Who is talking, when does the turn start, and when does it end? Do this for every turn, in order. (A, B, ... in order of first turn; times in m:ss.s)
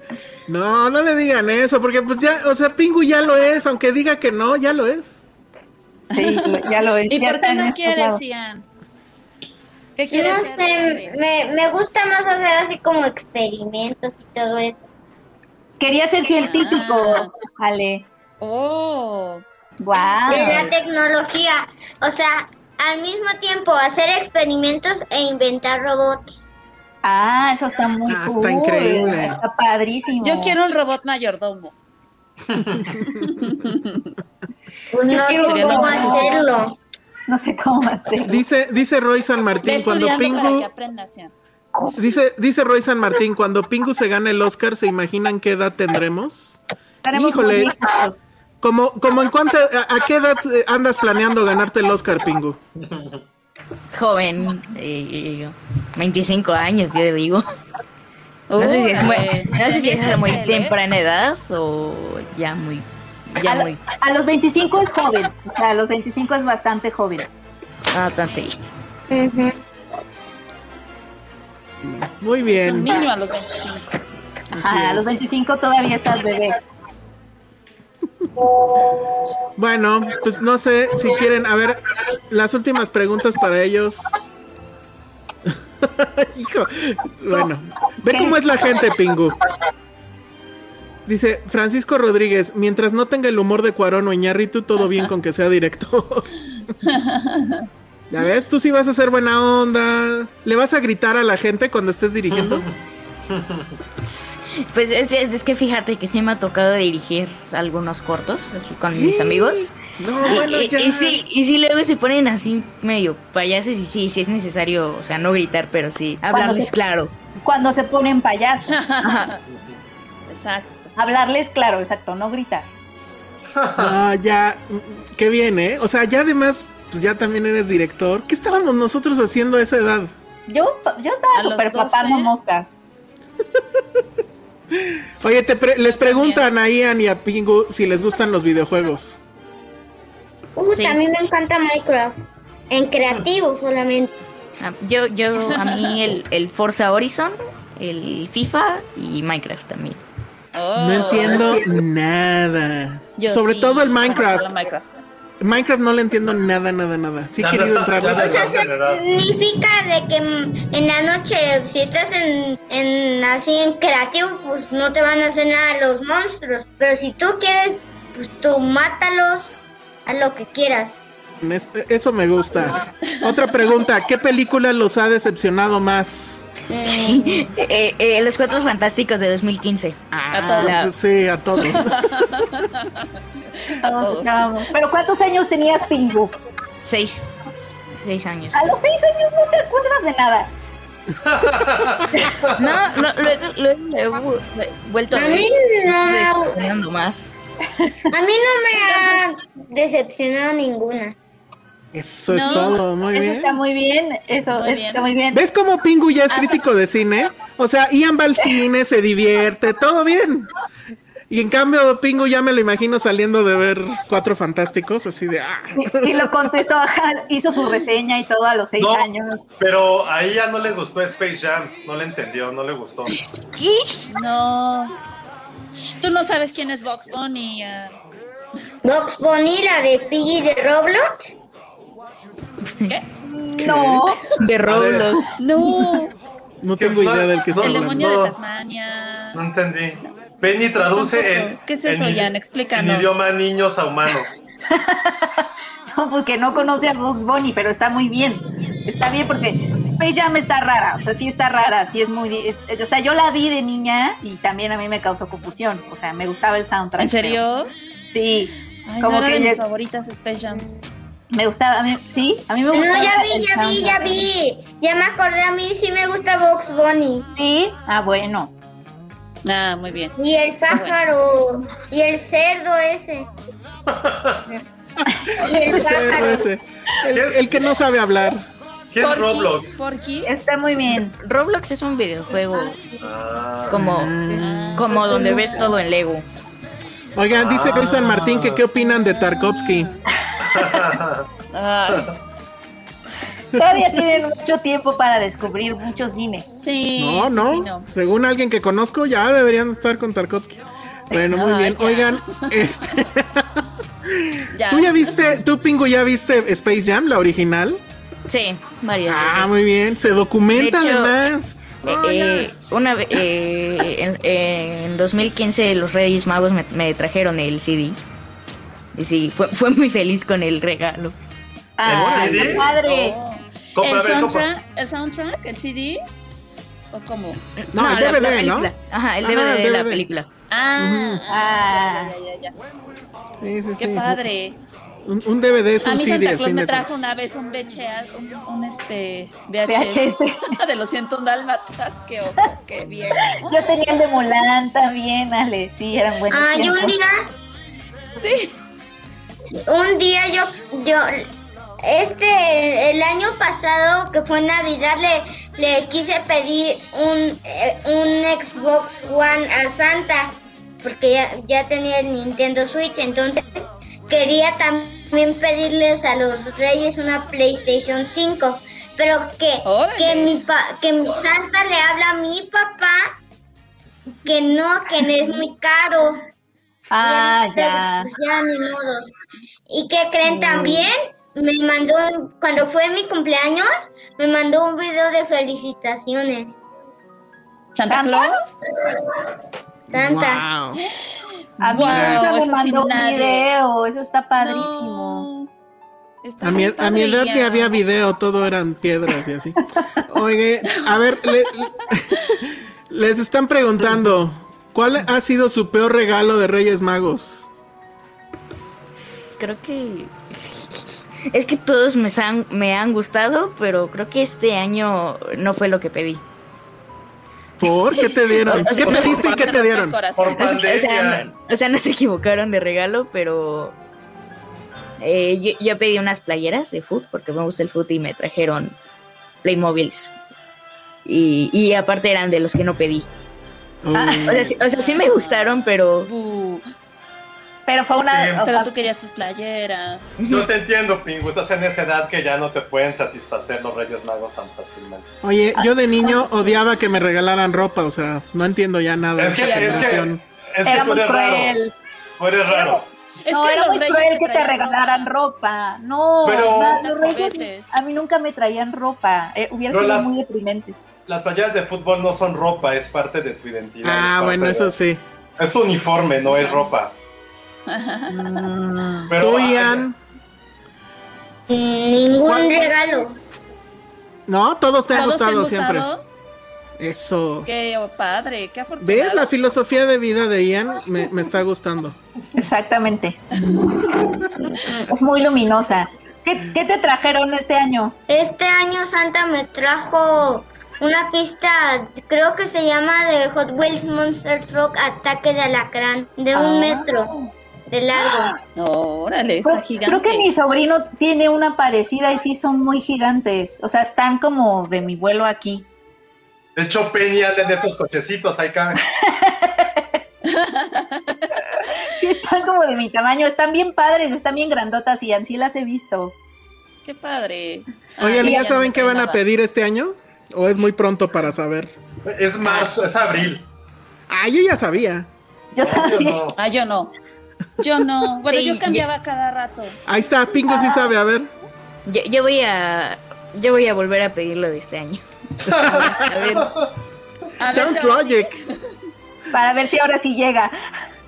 0:00.5-0:05.2 A
0:06.1-0:08.6 B
0:06.1-0:08.2 C
0:10.0-0:11.2 B
0:10.1-0:14.8 D
0:15.8-0:18.0 C
0:16.4-0:17.3 B
0:18.4-0:19.4 B
0:19.8-0:20.6 C
0:19.9-0:20.7 B
0:20.3-0:26.5 D
0:27.0-0:30.6 C
0:28.1-0:29.4 A
0:30.2-0:31.7 B
0:33.4-0:34.1 B
0:34.9-0:36.8 D
0:35.1-0:36.4 C
0:35.1-0:36.5 B
0:37.3-0:38.4 C
0:38.3-0:40.7 A
0:39.6-0:41.3 B
0:42.0-0:46.6 A
0:47.0-0:48.2 C
0:47.1-0:47.8 A
0:48.6-0:52.6 A
0:52.8-0:53.2 E
0:53.9-0:57.4 F
0:58.5-1:00.8 B
0:58.6-1:03.8 F
1:03.4-1:07.3 C
1:07.9-1:08.6 F
1:09.1-1:09.6 D
1:11.8-1:13.1 A
1:12.4-1:13.9 B
1:14.5-1:15.2 A
1:14.6-1:16.6 C
1:19.6-1:24.1 A
1:25.4-1:29.4 A
1:28.1-1:28.4 C
1:31.1-1:36.3 A
1:36.8-1:37.6 B
1:38.1-1:42.6 A
1:42.4-1:42.7 E
1:43.3-1:43.7 E
1:44.0-1:49.8 F
1:48.9-1:51.2 A
1:50.3-1:57.1 F
1:56.3-1:56.7 C
1:57.4-1:58.7 C
1:58.7-1:59.4 B
2:00.3-2:00.9 B
2:01.0-2:02.7 C
2:03.6-2:03.9 E
2:03.8-2:10.1 A
2:10.5-2:12.7 C
2:11.4-2:12.3 B
2:14.7-2:19.2 A
2:15.9-2:16.5 B
2:20.6-2:22.2 D
2:22.7-2:24.1 D
2:24.6-2:30.0 F
2:25.4-2:26.0 B
2:30.5-2:31.6 B
2:30.8-2:34.7 A
2:33.2-2:35.0 B
2:35.4-2:38.6 A
2:37.4-2:39.0 E
2:38.0-2:49.5 D
2:50.1-2:51.0 D
2:51.4-2:56.4 A
2:56.7-2:57.5 D
2:56.9-3:00.9 F
3:00.3-3:02.3 A
3:00.3-3:00.8 B
3:01.6-3:03.1 B
3:03.6-3:04.6 B
3:03.8-3:06.3 C
3:06.8-3:07.3 F
3:07.9-3:08.8 F
3:08.5-3:10.5 C
3:11.2-3:12.6 E
3:12.6-3:17.4 F
3:15.1-3:16.7 D
3:18.1-3:21.2 D
3:18.8-3:19.2 B
3:21.9-3:23.6 A
3:22.3-3:22.8 B
3:23.1-3:25.4 C
3:24.6-3:25.1 B
3:25.3-3:30.5 A
3:26.3-3:26.6 B
3:31.3-3:36.5 A
3:35.8-3:39.4 C
3:38.8-3:39.1 E
3:39.6-3:43.2 E
3:43.1-3:44.0 F
3:44.1-3:44.9 B
3:46.0-3:48.0 B
3:48.8-3:51.3 D
3:53.4-3:54.2 C
3:53.6-3:54.1 A
3:54.4-3:55.4 F
3:54.6-3:55.1 E
3:55.4-3:56.1 B
3:56.6-3:58.1 A
3:56.8-3:58.4 E
3:57.6-3:59.4 B
3:59.3-4:04.3 E
4:00.9-4:03.1 B
4:04.7-4:17.4 C
4:17.0-4:17.7 B
4:18.0-4:18.5 C
4:18.9-4:20.6 B
4:19.0-4:19.6 C
4:20.5-4:20.7 D
4:21.3-4:24.3 C
4:22.7-4:27.3 D
4:27.4-4:28.5 C
4:29.4-4:30.1 B
4:30.2-4:33.3 D
4:30.7-4:31.0 B
4:33.9-4:34.4 E
4:35.4-4:36.5 D
4:35.5-4:38.5 A
4:37.1-4:37.5 E
4:38.9-4:39.8 E
4:39.0-4:40.3 B
4:40.2-4:41.1 C
4:41.2-4:42.8 F
4:43.0-4:43.8 E
4:43.7-4:44.8 A
4:43.7-4:44.2 F
4:44.4-4:45.7 B
4:44.7-4:46.2 F
4:44.9-4:45.7 C
4:47.2-4:49.9 A
4:47.3-4:48.6 E
4:48.7-4:50.0 B
4:50.5-4:51.2 E
4:51.5-4:52.1 B
4:53.5-4:53.8 A
4:53.6-4:56.4 C
4:56.5-4:57.9 B
4:57.0-5:07.8 A
5:01.1-5:02.6 B
5:04.5-5:05.4 B
5:08.3-5:09.5 F
5:09.1-5:12.5 A
5:10.5-5:11.1 F
5:11.9-5:18.0 F
5:18.9-5:21.2 F
5:21.8-5:23.1 C
5:21.9-5:22.7 E
5:22.1-5:26.0 B
5:23.8-5:24.5 E
5:26.9-5:27.4 B
5:27.6-5:30.3 F
5:27.7-5:30.1 A
5:30.5-5:32.5 B
5:30.8-5:31.2 A
5:31.3-5:32.1 C
5:33.4-5:34.2 A
5:33.8-5:34.6 B
5:35.0-5:36.9 A
5:35.8-5:44.2 B
5:39.7-5:40.6 C
5:43.4-5:47.0 C
5:46.3-5:47.3 D
5:48.2-5:48.5 B
5:49.7-5:51.3 D
5:51.8-6:13.2 D
6:09.6-6:10.4 B
6:14.2-6:16.3 D
6:16.9-6:18.1 C
6:17.0-6:19.1 D
6:19.7-6:26.6 D
6:20.1-6:20.9 B
6:27.7-6:28.5 B
6:27.9-6:28.3 C
6:28.8-6:29.3 D
6:29.9-6:30.8 A
6:29.9-6:30.4 D
6:31.6-6:35.3 C
6:31.6-6:33.5 B
6:31.9-6:32.4 A
6:34.4-6:35.5 B
6:36.2-6:37.8 B
6:36.4-6:47.5 A
6:40.7-6:41.5 B
6:49.4-6:56.2 F
6:57.6-7:00.0 A
6:57.8-7:00.8 B
6:58.5-6:59.4 F
7:00.2-7:01.3 E
7:00.4-7:03.8 F
7:05.0-7:08.8 F
7:09.4-7:10.1 F
7:11.0-7:13.1 F
7:13.8-7:14.6 A
7:13.9-7:14.5 C
7:14.2-7:16.1 F
7:14.6-7:16.6 B
7:17.7-7:18.7 C
7:18.0-7:18.5 E
7:18.4-7:20.2 B
7:20.2-7:20.5 F
7:20.2-7:25.0 E
7:25.2-7:30.2 A
7:25.5-7:26.5 C
7:29.2-7:31.6 E
7:29.4-7:30.1 B
7:30.6-7:31.7 C
7:32.2-7:32.8 E
7:32.5-7:40.8 C
7:33.2-7:35.1 B
7:36.2-7:36.9 E
7:36.3-7:37.8 B
7:39.7-7:40.1 E
7:41.1-7:44.7 E
7:43.8-7:45.0 A
7:45.4-7:46.9 E
7:46.2-7:46.6 B
7:47.7-7:48.5 B
7:48.1-7:49.1 C
7:49.1-7:49.9 E
7:49.2-7:50.0 A
7:51.5-7:53.2 D
7:52.2-7:52.7 A
7:54.3-7:55.9 A
7:54.9-7:56.0 B
7:56.8-7:57.5 A
7:57.4-7:59.4 B
7:58.8-8:02.0 A
8:02.4-8:03.2 C
8:03.4-8:03.9 B
8:04.8-8:08.0 C
8:08.1-8:17.1 D
8:16.3-8:17.3 C
8:17.7-8:18.4 D
8:18.0-8:18.4 C
8:18.5-8:20.3 B
8:19.4-8:25.6 C
8:26.6-8:28.8 E
8:28.9-8:29.8 C
8:30.3-8:31.4 B
8:31.9-8:36.1 C
8:36.8-8:39.2 B
8:38.0-8:41.7 A
8:42.0-8:43.4 E
8:42.4-8:42.8 F
8:44.1-8:45.1 A
8:45.5-8:46.2 C
8:45.6-8:46.4 E
8:46.4-8:46.9 B
8:47.6-8:49.8 B
8:48.3-8:48.9 F
8:49.9-8:51.3 A
8:51.9-8:56.5 F
8:55.4-8:56.6 E
8:55.6-8:56.4 A
8:57.4-8:58.5 B
8:57.4-8:58.3 A
8:59.3-9:00.5 C